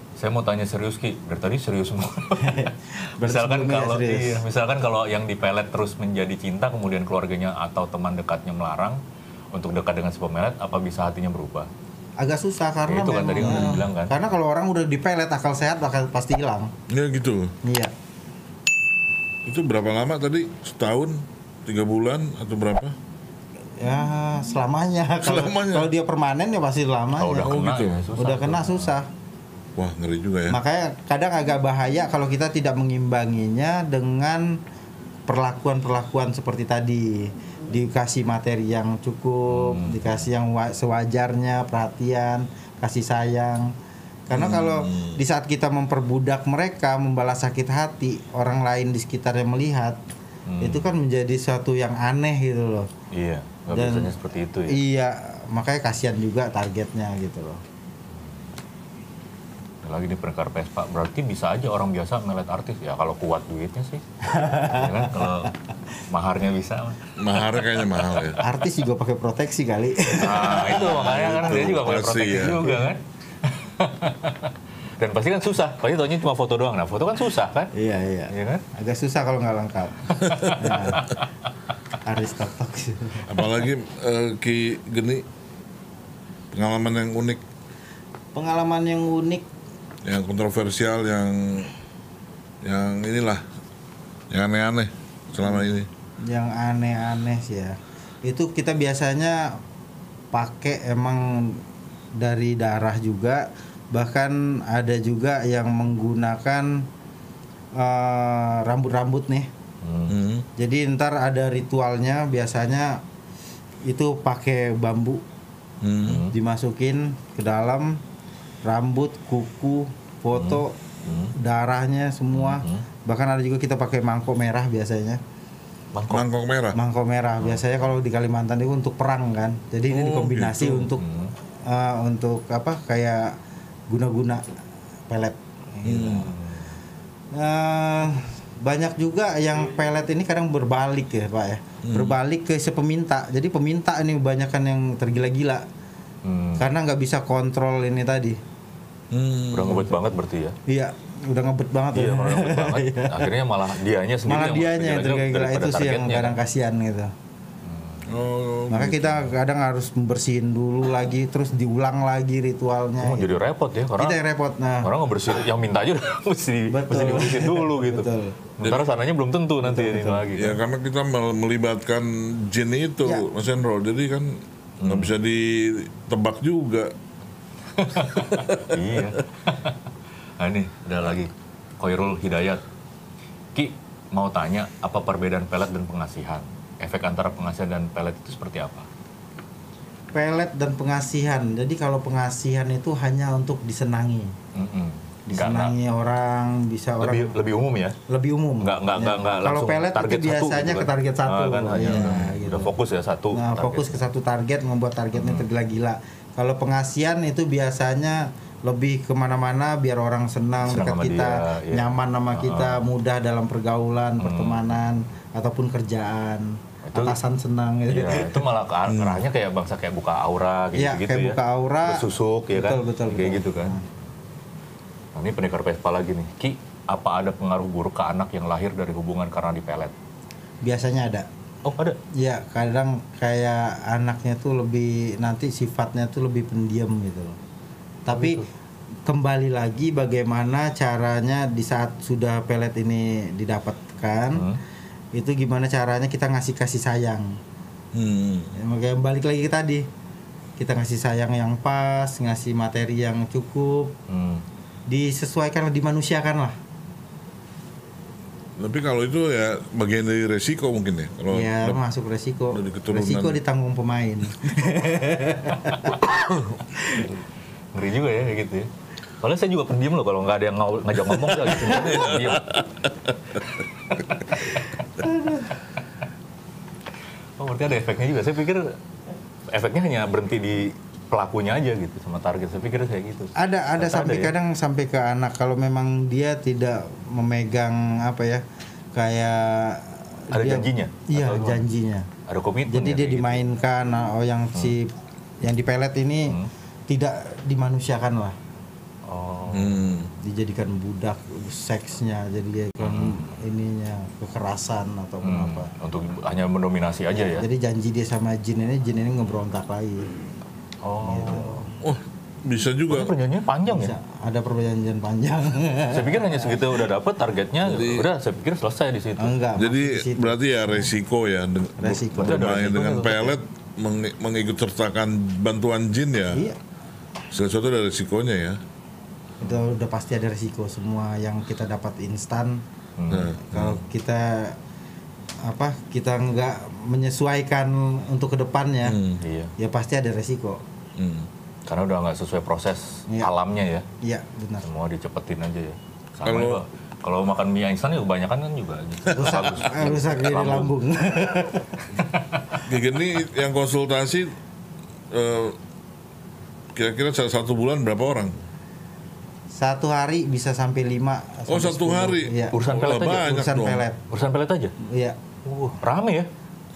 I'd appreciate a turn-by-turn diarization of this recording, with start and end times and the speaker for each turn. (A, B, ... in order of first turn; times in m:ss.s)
0:00.2-0:09.0 A
0:02.4-0:04.4 B
0:09.5-0:11.7 A
0:12.2-0:16.7 B
0:12.9-0:14.2 A
0:13.4-0:13.8 C
0:16.9-0:17.5 C
0:17.6-0:17.9 B
0:19.5-0:23.0 C
0:23.8-0:27.6 B
0:25.2-0:25.9 C
0:27.2-0:29.0 A
0:27.4-0:28.1 C
0:28.2-0:29.1 B
0:29.8-0:30.6 C
0:30.5-0:34.6 B
0:35.3-0:43.7 B
0:39.5-0:40.3 A
0:44.3-0:50.0 B
0:44.3-0:45.2 C
0:50.5-0:51.0 A
0:50.6-0:52.9 B
0:53.1-0:54.8 A
0:53.7-0:54.1 B
0:54.7-0:57.6 B
0:58.1-0:58.4 A
0:59.8-1:05.5 A
1:04.3-1:05.1 B
1:06.1-1:08.3 A
1:07.2-1:08.4 C
1:08.4-1:11.6 B
1:10.2-1:17.7 A
1:11.2-1:12.7 C
1:17.7-1:21.2 B
1:18.3-1:18.6 A
1:20.3-1:21.1 A
1:22.0-1:23.3 B
1:23.3-1:25.2 C
1:26.5-1:27.4 C
1:28.3-1:29.5 B
1:30.0-1:31.7 C
1:32.6-1:33.4 C
1:34.3-1:35.9 C
1:36.2-1:39.6 B
1:40.3-1:41.6 B
1:42.2-1:46.9 B
1:47.8-1:49.5 B
1:49.8-1:50.2 A
1:50.1-1:50.5 C
1:50.6-1:53.0 B
1:53.8-1:55.2 B
1:55.8-1:56.3 C
1:56.0-1:56.4 A
1:56.3-1:58.0 B
1:58.6-2:00.8 B
2:00.3-2:01.4 A
2:01.4-2:05.2 B
2:02.3-2:02.8 A
2:05.9-2:06.2 A
2:06.1-2:06.8 C
2:06.8-2:11.1 B
2:09.9-2:10.9 C
2:11.0-2:11.3 A
2:11.6-2:13.4 B
2:13.9-2:14.4 B
2:15.1-2:16.4 B
2:15.8-2:16.3 C
2:16.1-2:16.8 A
2:17.3-2:25.7 B
2:21.8-2:22.2 C
2:26.2-2:26.7 A
2:26.6-2:28.4 B
2:29.1-2:29.9 C
2:29.5-2:30.6 A
2:30.7-2:33.3 B
2:31.9-2:36.4 A
2:34.3-2:37.1 B
2:37.6-2:38.1 A
2:38.1-2:39.3 C
2:38.7-2:43.3 B
2:43.0-2:44.2 A
2:44.0-2:44.9 B
2:44.8-2:50.6 A
2:46.7-2:48.4 B
2:49.6-2:50.3 B
2:50.3-2:56.9 C
2:54.8-2:55.1 A
2:57.8-2:59.8 A
2:58.1-2:58.7 C
3:00.4-3:02.6 A
3:03.6-3:08.9 A
3:10.1-3:14.4 B
3:14.5-3:15.7 A
3:15.3-3:17.3 B
3:17.0-3:18.0 A
3:18.1-3:22.7 B
3:18.6-3:24.0 A
3:21.9-3:22.2 C
3:23.3-3:38.4 B
3:25.2-3:25.5 A
3:30.6-3:32.9 A
3:34.2-3:34.8 A
3:36.8-3:37.2 A
3:37.9-3:43.8 A
3:38.9-3:39.2 C
3:40.8-3:43.8 B
3:45.2-3:49.9 A
3:50.6-3:51.3 B
3:51.6-3:52.0 A
3:52.1-3:57.4 B
3:58.1-3:58.4 B
3:58.1-3:58.5 A
3:59.1-4:04.4 B
4:04.3-4:04.6 A
4:05.1-4:07.4 B
4:07.9-4:08.5 C
4:08.6-4:09.9 B
4:10.6-4:14.0 B
4:14.1-4:14.4 A
4:14.9-4:16.6 B
4:18.6-4:21.8 C
4:21.3-4:26.2 B
4:22.5-4:23.4 C
4:26.8-4:27.1 B
4:27.7-4:28.7 A
4:29.2-4:32.6 A
4:34.3-4:34.6 A
4:35.0-4:35.5 B
4:37.4-4:38.8 A
4:39.5-4:44.3 A
4:43.4-4:48.4 B
4:49.0-4:52.1 B
4:50.3-4:51.6 A
4:52.3-4:53.5 A
4:52.7-4:56.4 B
4:56.9-4:58.4 B
4:59.1-4:59.9 A
4:59.5-5:00.1 C
5:00.2-5:05.7 B
5:02.8-5:03.4 A
5:05.2-5:07.5 A
5:07.2-5:10.1 B
5:10.8-5:11.7 A
5:11.0-5:11.7 B
5:11.8-5:13.1 C
5:12.9-5:13.9 A
5:13.7-5:16.8 B
5:15.9-5:19.3 A
5:17.6-5:18.1 C
5:19.2-5:20.4 B
5:19.6-5:26.4 C
5:21.8-5:22.8 B
5:22.2-5:23.4 A
5:27.3-5:28.6 C
5:29.4-5:32.6 B
5:33.0-5:33.4 A
5:33.1-5:33.8 C
5:33.4-5:34.6 B
5:35.4-5:39.0 B
5:38.8-5:39.2 C
5:39.2-5:39.5 A
5:39.6-5:40.6 B
5:41.0-5:41.3 C
5:41.7-5:43.9 A
5:44.0-5:44.7 B
5:44.6-5:50.8 A
5:46.2-5:46.6 C
5:49.1-5:51.8 B
5:52.0-5:52.6 A
5:52.7-5:54.4 C
5:55.1-5:55.6 C
5:56.8-5:58.4 C
5:59.5-6:04.0 B
6:01.5-6:03.9 C
6:02.5-6:03.4 A
6:04.1-6:04.7 A
6:04.8-6:05.2 B
6:05.4-6:06.3 A